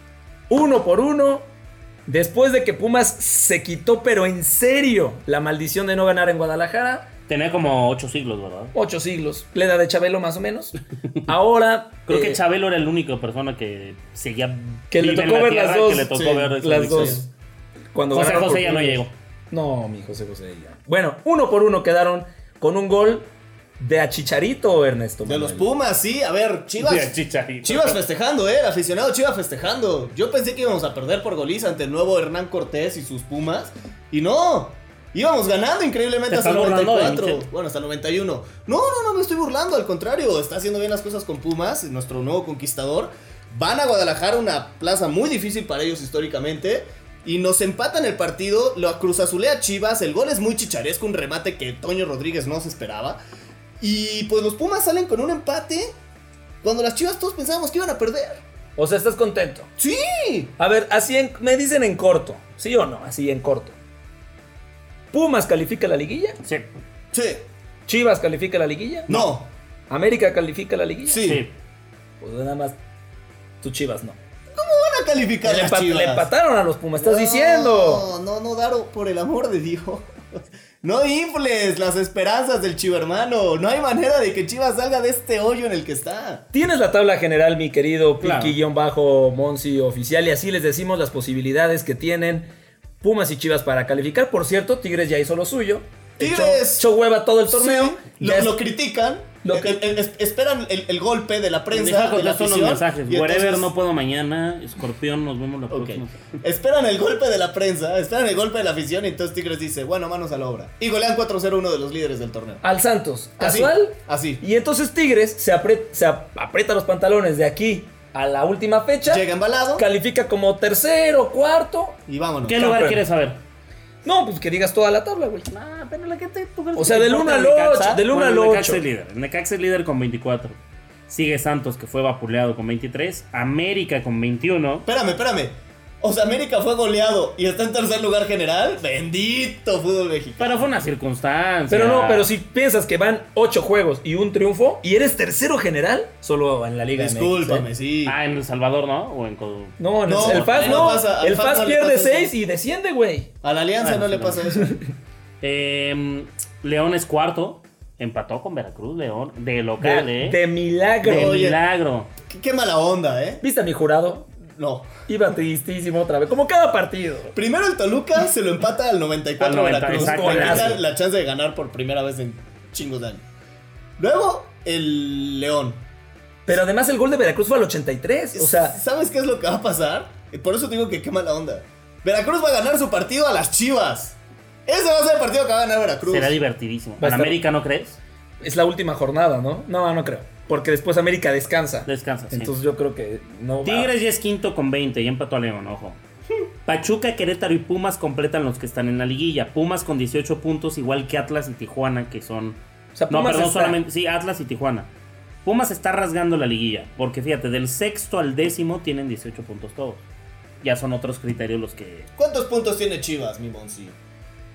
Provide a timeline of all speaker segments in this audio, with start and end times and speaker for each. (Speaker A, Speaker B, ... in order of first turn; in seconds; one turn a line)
Speaker A: 0.5-1.5
Speaker A: 2.1-7.1
Speaker B: 7.3-8.7
Speaker A: 8.7-12.4
Speaker B: 12.1-17.2
Speaker A: 14.9-17.2
Speaker C: 16.1-17.2
Speaker A: 17.9-25.7
Speaker B: 18.1-19.1
Speaker C: 25.2-53.2
Speaker B: 26.8-28.0
Speaker B: 36.3-37.5
Speaker C: 53.8-55.9
Speaker C: 56.6-58.4
Speaker A: 58.8-59.7
Speaker C: 59.8-60.5
Speaker A: 60.6-63.8
Speaker A: 65.1-66.4
Speaker C: 67.1-67.5
Speaker A: 67.9-69.3
Speaker C: 69.1-69.5
Speaker A: 69.9-71.3
Speaker C: 71.1-71.5
Speaker B: 71.2-71.5
Speaker A: 72.2-72.8
Speaker A: 73.6-74.2
Speaker C: 74.5-76.3
Speaker A: 75.4-78.1
Speaker C: 77.0-86.5
Speaker A: 86.5-92.5
Speaker B: 88.2-88.5
Speaker A: 93.0-98.6
Speaker C: 96.2-96.9
Speaker C: 97.5-103.7
Speaker A: 99.4-99.8
Speaker B: 101.7-106.2
Speaker C: 105.7-112.6
Speaker A: 112.6-122.0
Speaker C: 113.4-114.4
Speaker C: 119.1-119.9
Speaker C: 122.1-122.7
Speaker B: 122.5-123.4
Speaker A: 122.5-123.0
Speaker A: 124.0-125.5
Speaker B: 125.5-134.9
Speaker A: 126.8-128.8
Speaker C: 134.9-140.7
Speaker B: 140.4-142.3
Speaker A: 141.7-147.7
Speaker C: 146.9-148.2
Speaker B: 148.1-151.0
Speaker A: 149.8-153.3
Speaker C: 150.1-152.3
Speaker C: 153.4-154.8
Speaker B: 153.8-154.4
Speaker B: 155.4-160.4
Speaker A: 159.8-161.5
Speaker B: 161.0-162.1
Speaker C: 161.0-161.6
Speaker C: 162.3-163.4
Speaker A: 163.4-164.3
Speaker C: 164.6-164.9
Speaker A: 165.1-167.3
Speaker C: 167.3-173.2
Speaker B: 169.4-170.8
Speaker A: 169.9-170.8
Speaker C: 174.0-175.8
Speaker A: 176.5-178.8
Speaker C: 178.3-186.4
Speaker B: 186.1-188.0
Speaker A: 187.0-187.4
Speaker A: 188.4-193.9
Speaker B: 191.9-192.6
Speaker B: 193.6-196.0
Speaker B: 196.7-202.6
Speaker A: 202.9-203.8
Speaker B: 203.1-204.9
Speaker B: 205.4-210.1
Speaker B: 210.6-212.1
Speaker C: 212.2-214.0